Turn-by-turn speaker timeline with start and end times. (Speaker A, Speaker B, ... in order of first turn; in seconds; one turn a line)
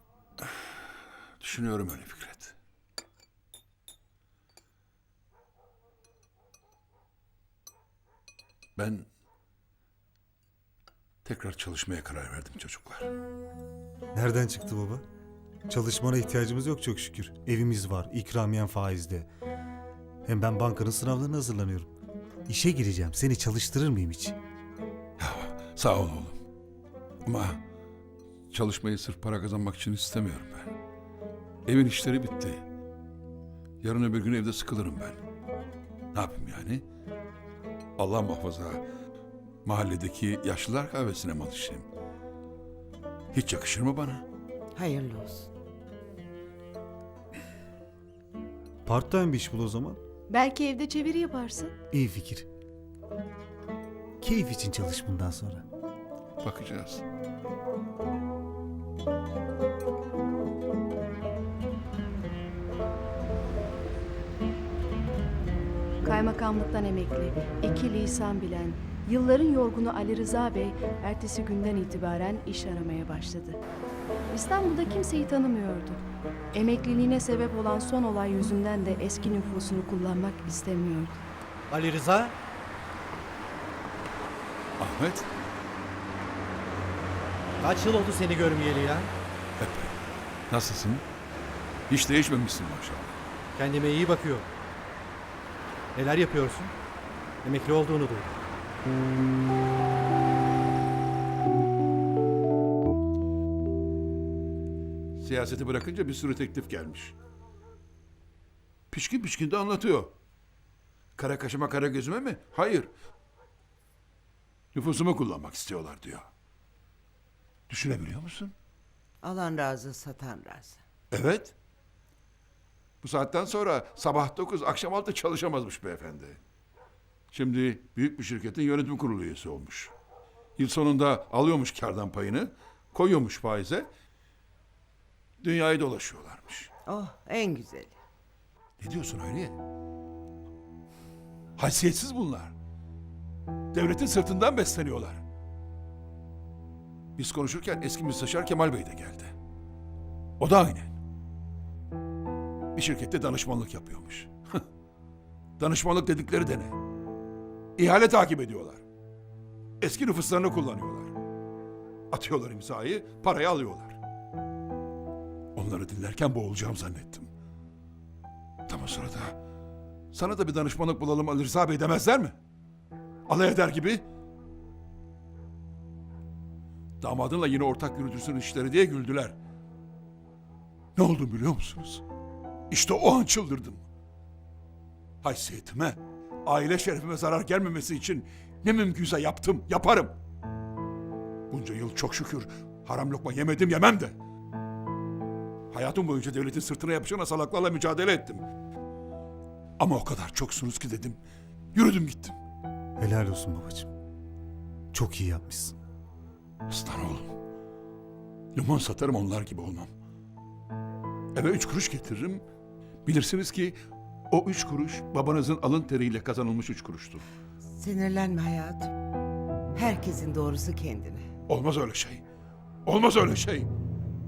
Speaker A: 1.4-2.5
Speaker A: 8.8-9.1
Speaker A: 11.2-13.1
Speaker B: 14.1-15.0
Speaker B: 15.7-19.3
Speaker B: 20.2-21.9
Speaker B: 22.5-24.4
Speaker A: 25.2-26.4
Speaker A: 27.2-27.6
Speaker A: 28.5-30.7
Speaker A: 31.6-32.6
Speaker A: 33.8-35.2
Speaker A: 36.1-36.8
Speaker A: 38.0-38.8
Speaker A: 39.6-41.9
Speaker A: 43.3-44.2
Speaker C: 44.7-45.5
Speaker B: 48.8-50.0
Speaker D: 50.3-51.7
Speaker B: 51.9-52.5
Speaker B: 54.2-55.6
Speaker A: 56.4-57.0
Speaker D: 66.0-73.6
Speaker D: 74.3-76.0
Speaker D: 76.5-81.2
Speaker E: 81.7-82.3
Speaker A: 84.8-85.3
Speaker E: 87.6-89.1
Speaker A: 89.6-89.9
Speaker A: 90.5-91.0
Speaker A: 91.9-93.2
Speaker E: 93.5-94.5
Speaker E: 95.9-96.7
Speaker E: 97.4-98.3
Speaker A: 105.2-107.1
Speaker A: 108.9-110.1
Speaker A: 111.2-112.9
Speaker A: 114.7-116.3
Speaker A: 117.7-118.5
Speaker C: 119.2-120.8
Speaker A: 121.1-121.5
Speaker A: 123.0-126.4
Speaker A: 127.3-129.9
Speaker A: 130.6-133.9
Speaker A: 135.4-136.7
Speaker C: 136.8-138.0
Speaker A: 138.8-139.6
Speaker A: 141.6-142.5
Speaker A: 143.7-145.2
Speaker A: 147.2-149.3
Speaker A: 150.4-150.9
Speaker A: 152.7-154.6
Speaker A: 155.6-156.8
Speaker A: 157.8-158.8
Speaker A: 159.8-161.1
Speaker A: 162.1-164.0
Speaker A: 165.6-167.3
Speaker A: 168.7-169.4
Speaker A: 170.1-172.4
Speaker A: 173.3-174.0
Speaker A: 177.0-179.4
Speaker A: 180.9-182.0
Speaker A: 182.7-183.8
Speaker A: 185.2-190.2
Speaker A: 191.5-194.2
Speaker A: 195.7-198.4
Speaker A: 199.8-201.2
Speaker A: 201.7-202.4
Speaker B: 203.0-203.9
Speaker B: 204.9-205.8
Speaker A: 206.7-207.3
Speaker A: 208.5-209.9
Speaker A: 211.3-212.4
Speaker A: 213.1-213.8
Speaker A: 214.3-217.2
Speaker C: 217.7-218.9
Speaker C: 219.7-221.3
Speaker A: 221.5-222.2
Speaker A: 222.8-223.7